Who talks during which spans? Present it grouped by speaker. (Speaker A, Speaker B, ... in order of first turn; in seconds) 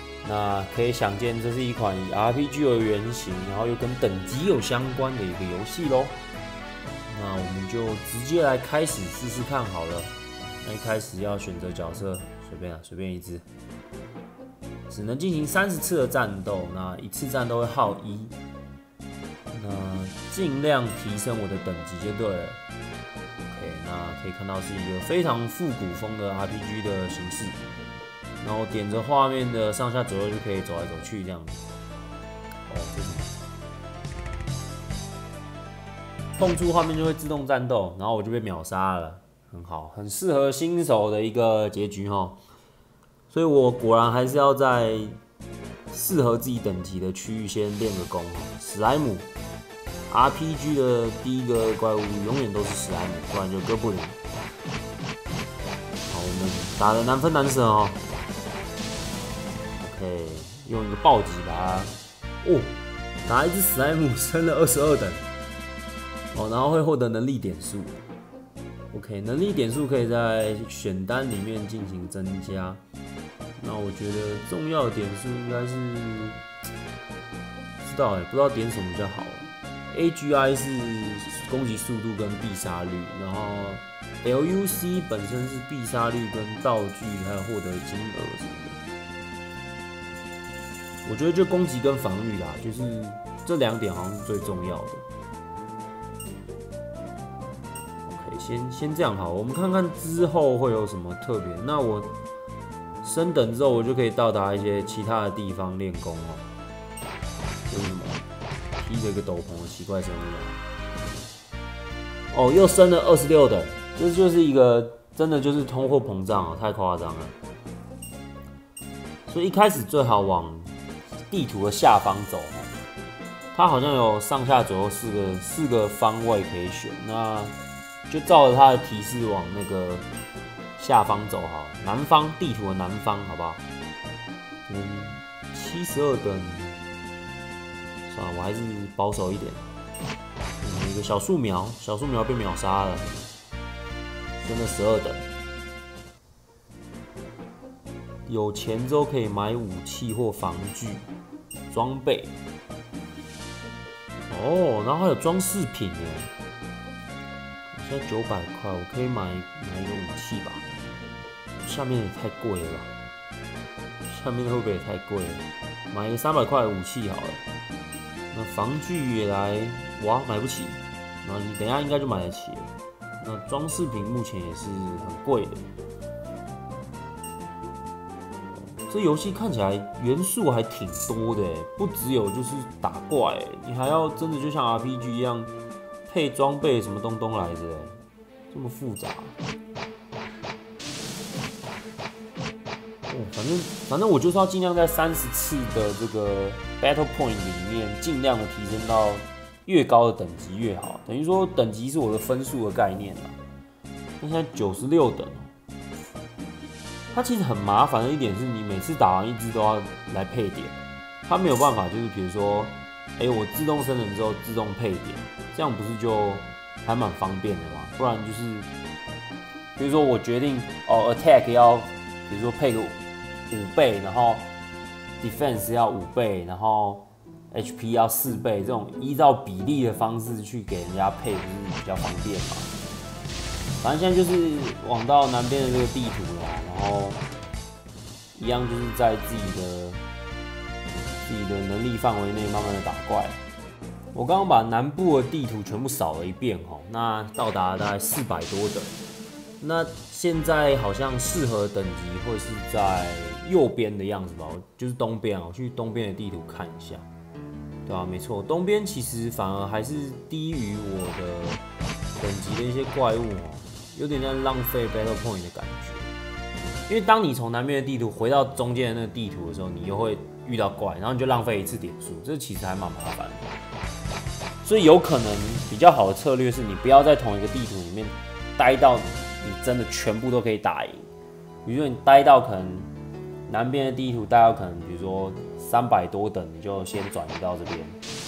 Speaker A: 0.2-6.2, 7.0-13.4, 14.9-18.4, 19.5-22.6, 23.5-27.7, 28.4-31.6, 32.7-33.3, 36.3-42.4, 43.3-45.2, 45.9-49.3, 50.1-54.2, 56.1-58.0, 59.8-65.2, 66.3-68.0, 68.9-72.8, 73.6-76.4, 77.8-88.8, 91.0-95.0, 98.0-102.1, 103.0-106.4, 107.7-108.2, 108.8-110.6, 112.3-117.3, 119.2-120.7, 121.3-122.7, 123.5-127.5, 128.1-130.1, 130.8-133.6, 134.7-136.8, 138.1-139.6, 140.6-143.1, 144.4-145.2, 148.2-151.1, 151.7-152.3, 154.3-156.3, 157.7-160.6, 161.6-162.9, 164.0-167.4, 168.3-175.7, 178.7-185.5, 186.1-189.3, 193.1-203.4, 204.2-205.5, 207.1-218.7, 219.8-223.0, 223.5-224.5, 225.2-232.7, 233.8-237.2, 238.3-240.0, 241.2-243.4, 244.1-248.9, 249.6-257.1, 257.9-261.6, 262.2-266.1, 266.9-273.5, 274.6-281.1, 281.6-282.9, 283.5-288.0